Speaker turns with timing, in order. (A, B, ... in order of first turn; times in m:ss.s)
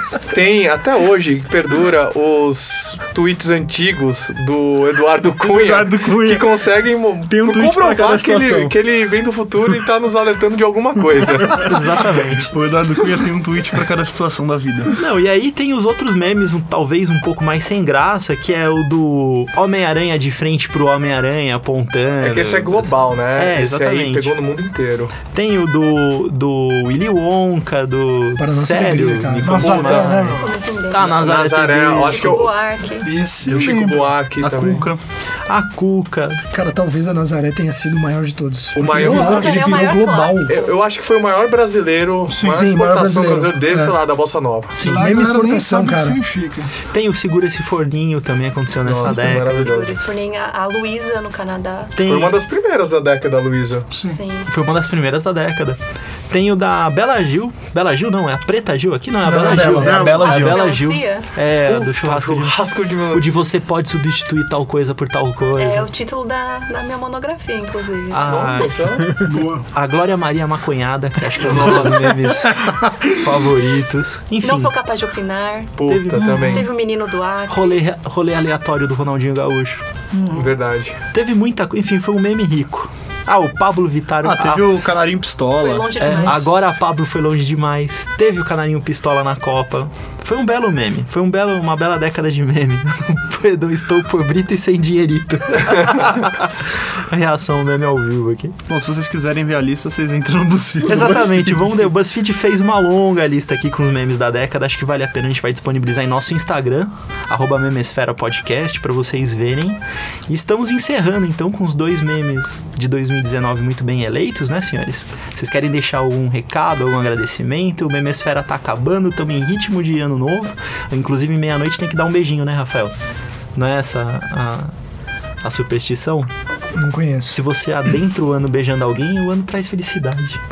0:00.3-0:11.6 A
0:05.3-0:06.6 B
0:07.3-0:08.7 B
0:11.6-0:12.5 C
0:12.5-0:14.9 B
0:14.9-0:24.3 C
0:22.2-0:25.2 A
0:25.2-0:32.5 C
0:28.4-0:29.6 D
0:29.4-0:30.5 E
0:29.6-0:30.2 A
0:30.4-0:33.1 F
0:31.0-0:32.5 A
0:33.0-0:34.2 E
0:33.4-0:33.7 B
0:33.5-0:34.8 A
0:34.4-0:35.0 B
0:35.5-0:36.4 C
0:36.5-0:40.6 D
0:38.7-0:39.6 A
0:38.8-0:39.6 E
0:39.1-0:40.8 F
0:40.5-0:44.8 A
0:42.2-0:42.7 E
0:42.4-0:43.9 D
0:44.8-0:46.7 E
0:44.8-0:45.1 C
0:44.8-0:46.2 D
0:46.9-0:49.8 C
0:48.8-0:49.9 A
0:49.2-0:52.0 F
0:52.0-0:52.4 C
0:52.0-0:53.9 A
0:53.9-0:54.2 E
0:54.1-0:54.5 F
0:54.4-1:02.6 C
0:59.2-1:00.0 D
0:59.7-1:00.8 B
0:59.8-1:01.3 F
1:01.7-1:03.4 A
1:03.1-1:05.9 C
1:05.6-1:08.5 F
1:08.1-1:08.8 C
1:08.2-1:09.2 A
1:09.2-1:09.7 E
1:09.7-1:14.7 C
1:11.4-1:11.9 A
1:14.4-1:15.7 F
1:15.8-1:16.7 A
1:15.9-1:16.6 C
1:16.1-1:16.5 E
1:16.4-1:17.8 F
1:17.5-1:19.8 C
1:20.1-1:20.6 E
1:20.3-1:21.0 A
1:21.1-1:24.7 C
1:24.2-1:25.9 B
1:25.6-1:26.6 F
1:26.0-1:38.6 C
1:38.7-1:41.6 B
1:40.8-2:03.0 C
2:03.5-2:04.7 C
2:05.4-2:06.3 C
2:06.8-2:07.4 D
2:07.3-2:10.4 C